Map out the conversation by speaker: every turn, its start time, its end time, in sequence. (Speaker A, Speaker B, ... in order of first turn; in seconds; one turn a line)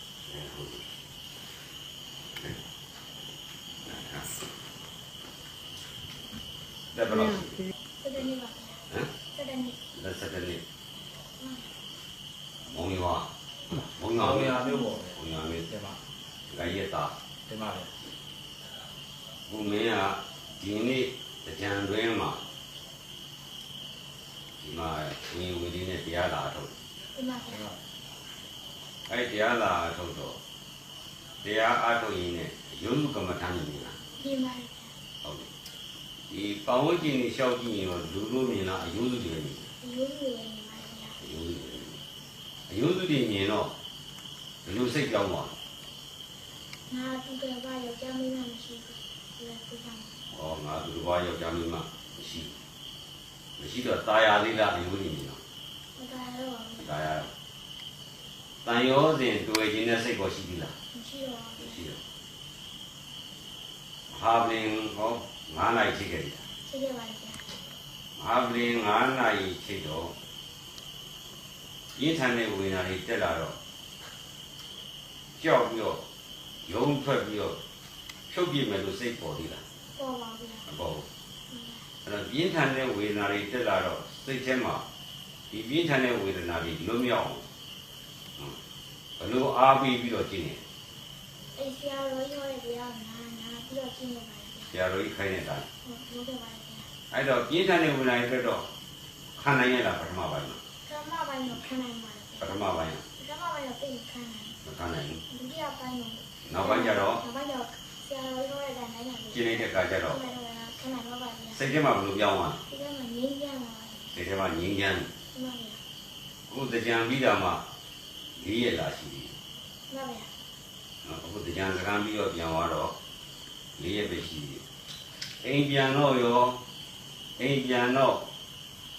Speaker A: 0.2-0.8
Speaker A: 3.8-4.4
Speaker A: 6.9-7.6
Speaker B: 8.0-9.8
Speaker A: 9.9-10.6
Speaker B: 11.4-11.7
Speaker A: 12.7-15.7
Speaker C: 14.1-16.0
Speaker A: 16.5-17.1
Speaker C: 17.5-17.9
Speaker A: 19.5-22.4
Speaker A: 24.6-26.7
Speaker B: 27.1-27.7
Speaker C: 27.5-27.7
Speaker A: 29.1-30.4
Speaker A: 31.4-34.0
Speaker B: 34.2-34.9
Speaker A: 35.2-35.5
Speaker A: 36.3-39.7
Speaker B: 39.8-41.2
Speaker A: 41.2-42.0
Speaker A: 42.7-43.7
Speaker A: 44.6-45.5
Speaker B: 46.9-50.2
Speaker A: 50.3-52.6
Speaker A: 53.6-55.4
Speaker B: 56.0-56.9
Speaker A: 56.8-57.3
Speaker A: 58.6-60.7
Speaker B: 60.9-61.8
Speaker A: 61.6-62.0
Speaker A: 64.1-66.4
Speaker B: 66.6-67.5
Speaker A: 68.2-70.1
Speaker A: 72.0-73.5
Speaker A: 75.4-76.0
Speaker A: 76.6-77.6
Speaker A: 78.3-79.6
Speaker B: 79.9-80.7
Speaker A: 80.7-81.0
Speaker B: 81.5-81.9
Speaker A: 82.0-84.8
Speaker A: 85.5-87.4
Speaker A: 89.2-90.6
Speaker B: 91.5-94.7
Speaker A: 94.7-95.7
Speaker B: 95.8-96.9
Speaker A: 97.1-98.7
Speaker A: 99.3-100.6
Speaker B: 100.8-102.5
Speaker A: 102.4-103.0
Speaker B: 103.2-104.6
Speaker A: 104.6-105.2
Speaker B: 105.3-111.6
Speaker A: 106.4-107.2
Speaker A: 109.3-110.2
Speaker A: 111.5-112.6
Speaker B: 112.7-114.1
Speaker A: 114.1-115.1
Speaker B: 115.3-115.8
Speaker A: 116.5-117.6
Speaker A: 118.3-119.3
Speaker B: 119.9-120.3
Speaker A: 121.0-122.9
Speaker A: 123.8-124.6
Speaker A: 125.2-126.6
Speaker A: 127.4-128.2